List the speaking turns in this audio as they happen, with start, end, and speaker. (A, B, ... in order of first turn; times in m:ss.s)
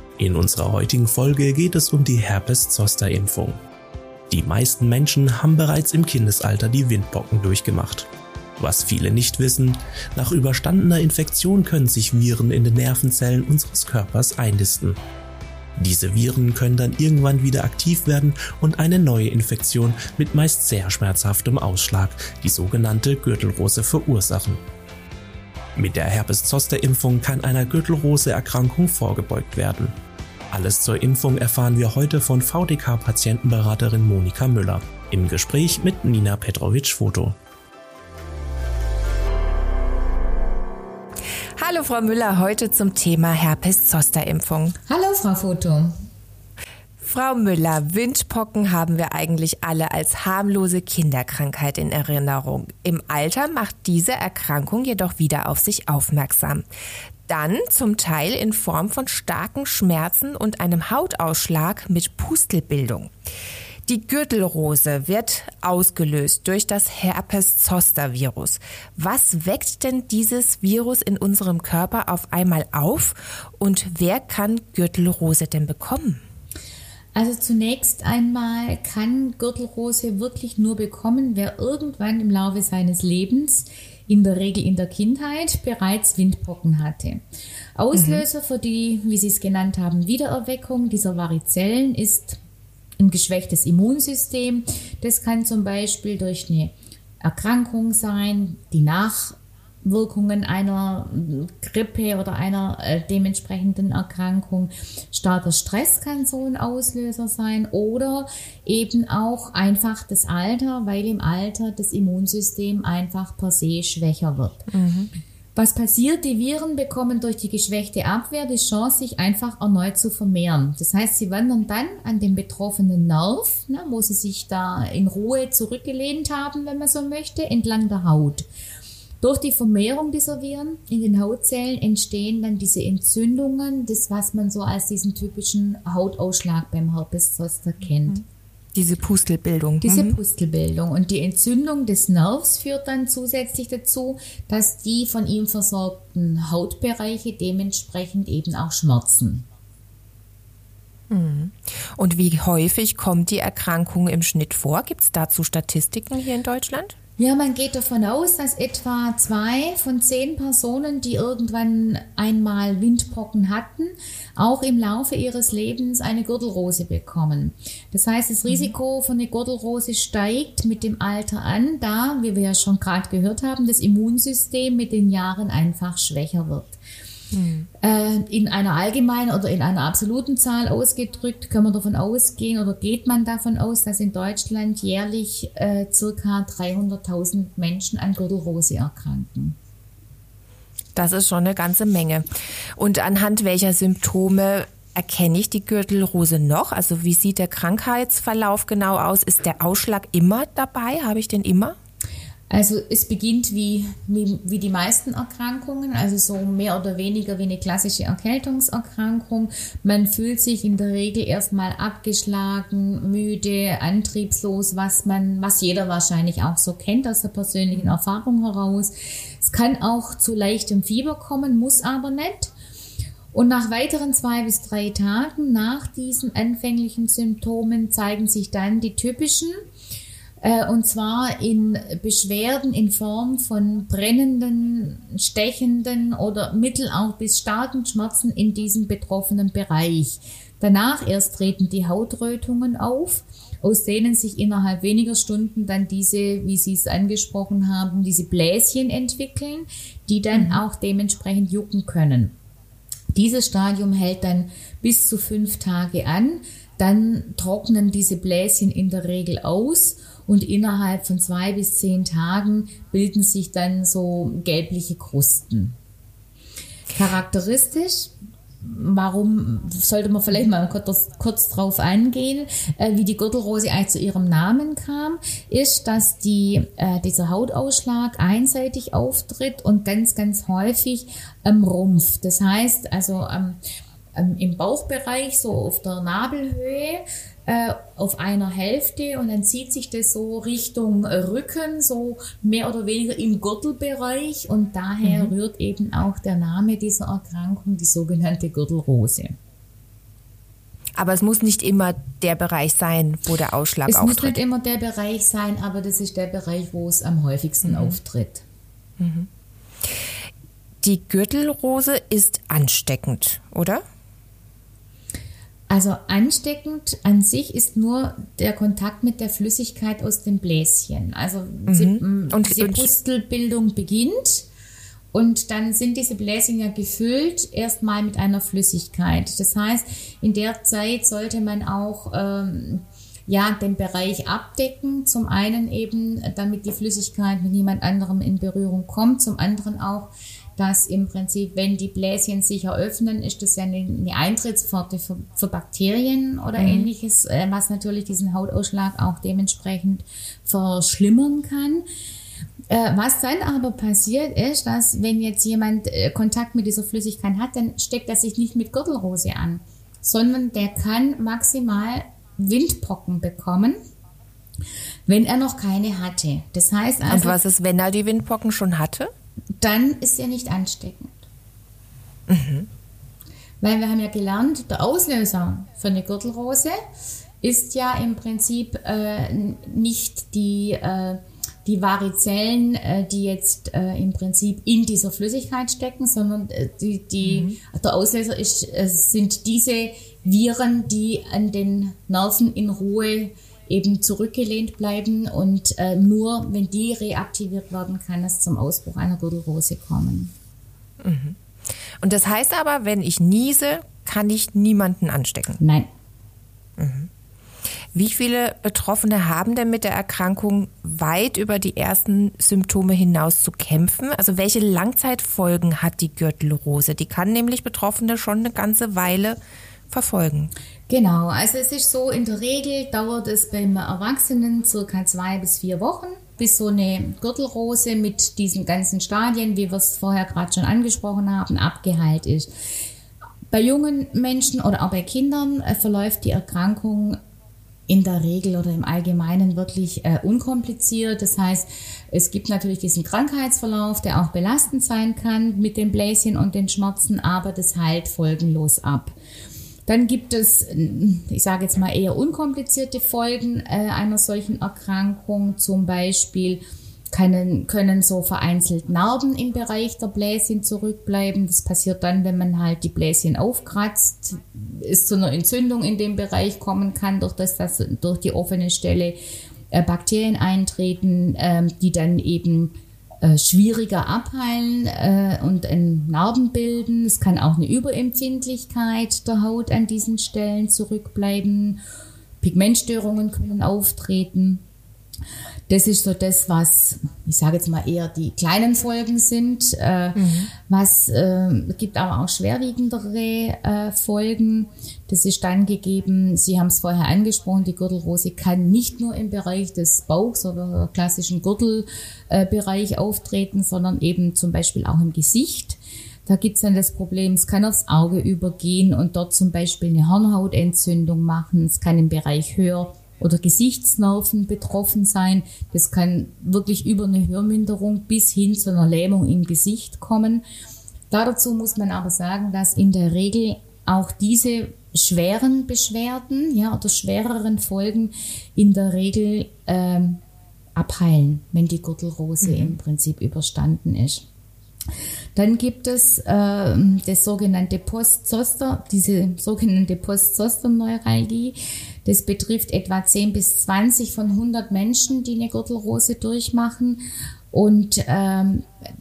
0:00.2-0:03.6 A
0:04.3-0:15.0 A
0:15.8-0:24.6 A
0:25.8-0:29.9 A
0:30.5-0:37.4 A
0:41.6-0:44.8 B
0:44.8-0:45.9 C
0:47.0-0:56.6 B
0:57.2-1:03.1 B
1:03.8-1:16.2 B
1:17.1-1:27.2 C
1:27.8-1:32.4 C
1:27.9-1:28.2 B
1:33.0-1:54.6 C
1:54.7-1:55.1 B
1:55.5-2:08.4 C
2:09.2-2:18.2 C
2:18.7-2:20.2 B
2:19.8-2:29.5 C
2:31.1-2:37.0 B
2:37.2-2:56.8 C
2:48.5-2:48.7 B
2:57.3-2:57.7 B
2:57.8-3:09.6 C
3:10.9-3:21.8 B
3:22.5-3:42.5 C
3:43.3-3:49.6 C
3:50.4-4:12.4 C
4:10.3-4:10.6 B
4:13.1-4:25.8 C
4:26.9-4:43.6 C
4:44.1-4:59.4 C
4:55.0-4:55.3 B
5:01.0-5:04.4 B
5:03.8-5:08.4 C
5:07.6-5:08.0 B
5:09.0-5:09.3 B
5:10.8-5:13.8 B
5:15.7-5:24.5 C
5:21.7-5:22.9 B
5:25.1-5:51.8 C
5:46.6-5:46.9 B
5:52.7-6:03.8 C
6:05.1-6:07.4 C
6:07.1-6:09.1 B
6:09.6-6:11.3 C
6:12.3-6:12.7 B
6:13.6-6:16.8 C
6:17.4-6:40.3 C
6:27.2-6:27.6 B
6:41.0-6:41.4 B
6:42.0-6:45.6 B
6:45.6-6:45.9 C
6:46.8-6:47.1 B
6:47.9-6:59.4 B
6:59.9-7:00.5 B
7:00.9-7:12.5 C
7:13.5-7:17.2 C
7:17.9-7:29.1 C
7:29.9-7:49.2 C
7:49.7-8:01.8 C
8:02.4-8:04.6 C
8:05.7-8:40.4 C
8:10.1-8:10.5 B
8:41.1-8:50.2 C
8:50.8-8:54.3 C
8:52.4-8:52.8 B
8:55.3-9:08.7 C